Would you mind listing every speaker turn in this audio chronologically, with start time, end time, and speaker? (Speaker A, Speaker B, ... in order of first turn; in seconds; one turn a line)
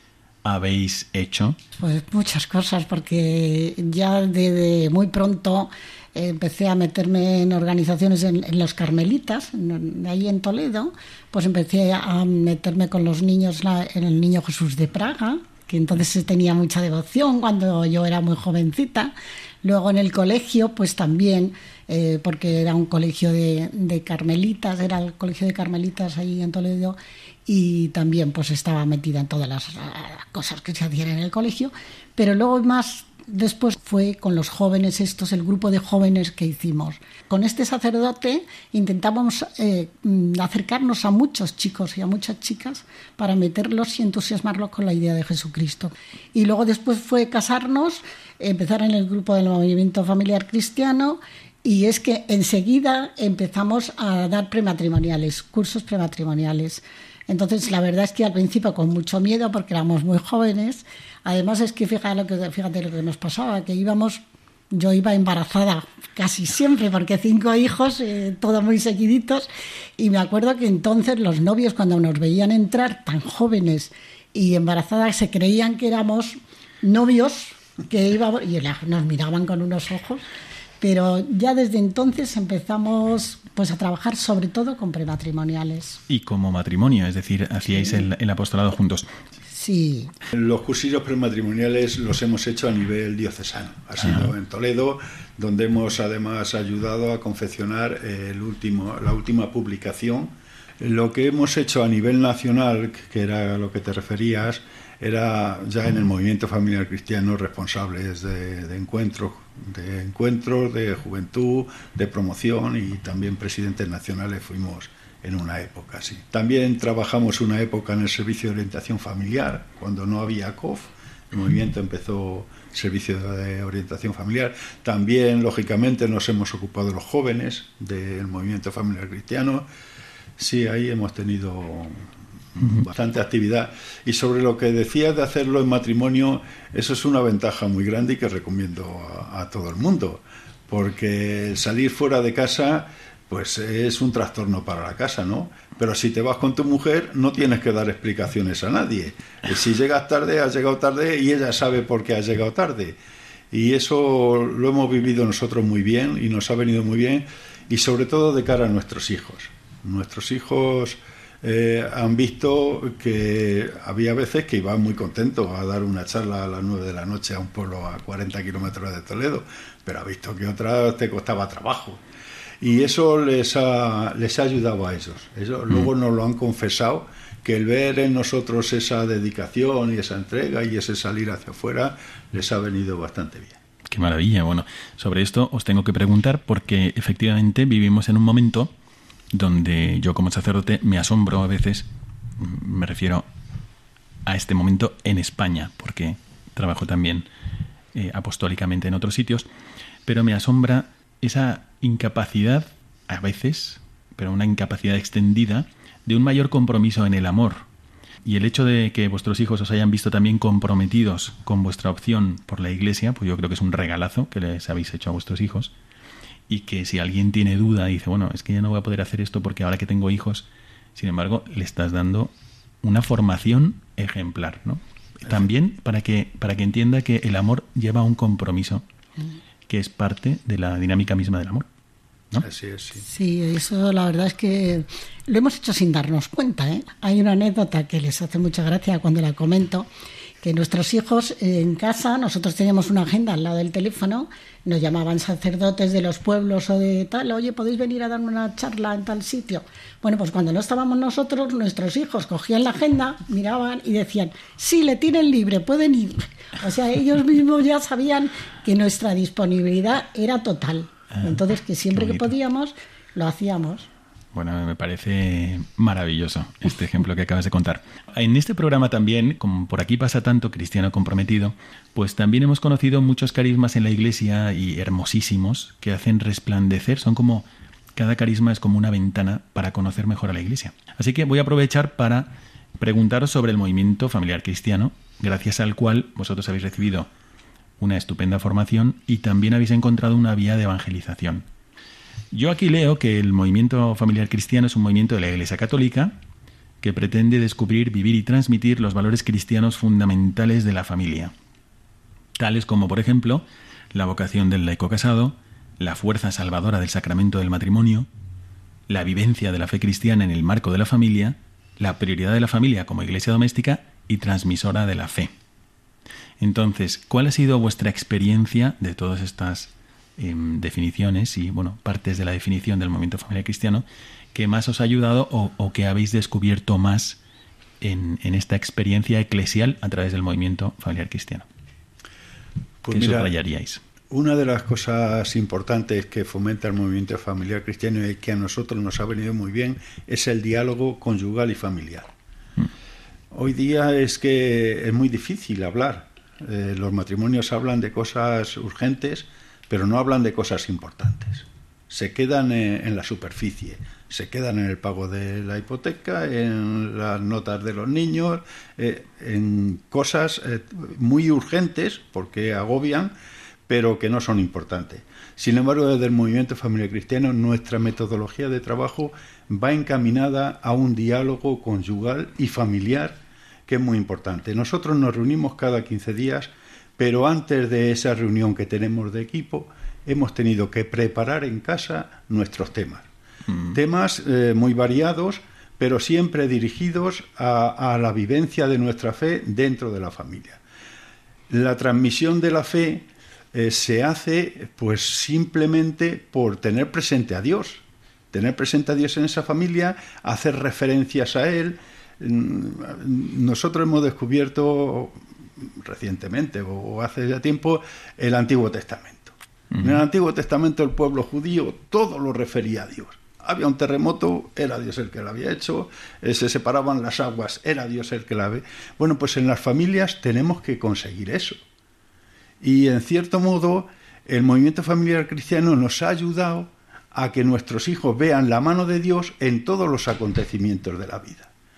Speaker A: 0.4-1.6
Speaker B: 1.8-69.5
Speaker B: 70.0-80.2
Speaker B: 80.8-86.0
Speaker A: 86.1-89.1
Speaker B: 89.5-90.1
Speaker C: 90.3-129.7
Speaker A: 94.0-94.3
Speaker C: 130.4-153.0
Speaker C: 153.5-172.0
Speaker C: 172.6-183.6
Speaker A: 183.9-188.7
Speaker A: 189.3-191.9
Speaker A: 192.4-193.3
Speaker A: 194.3-197.3
Speaker A: 197.9-199.5
Speaker A: 200.1-207.7
Speaker A: 208.2-215.7
Speaker A: 216.5-228.8
Speaker A: 229.7-231.7
Speaker C: 232.4-233.0
Speaker B: 233.0-239.9
Speaker B: 240.4-263.9
Speaker A: 261.9-262.2
Speaker A: 264.3-287.1
Speaker A: 287.8-291.5
Speaker A: 292.3-296.1
Speaker A: 296.8-301.3
Speaker A: 302.4-308.1
Speaker A: 308.9-315.3
Speaker A: 316.4-327.2
Speaker A: 327.8-331.5
Speaker C: 332.8-333.3
Speaker A: 332.9-333.8
Speaker C: 334.1-342.1
Speaker C: 343.3-363.1
Speaker C: 363.7-383.1
Speaker A: 383.5-383.8
Speaker C: 383.7-390.6
Speaker C: 391.5-421.6
Speaker C: 422.6-431.5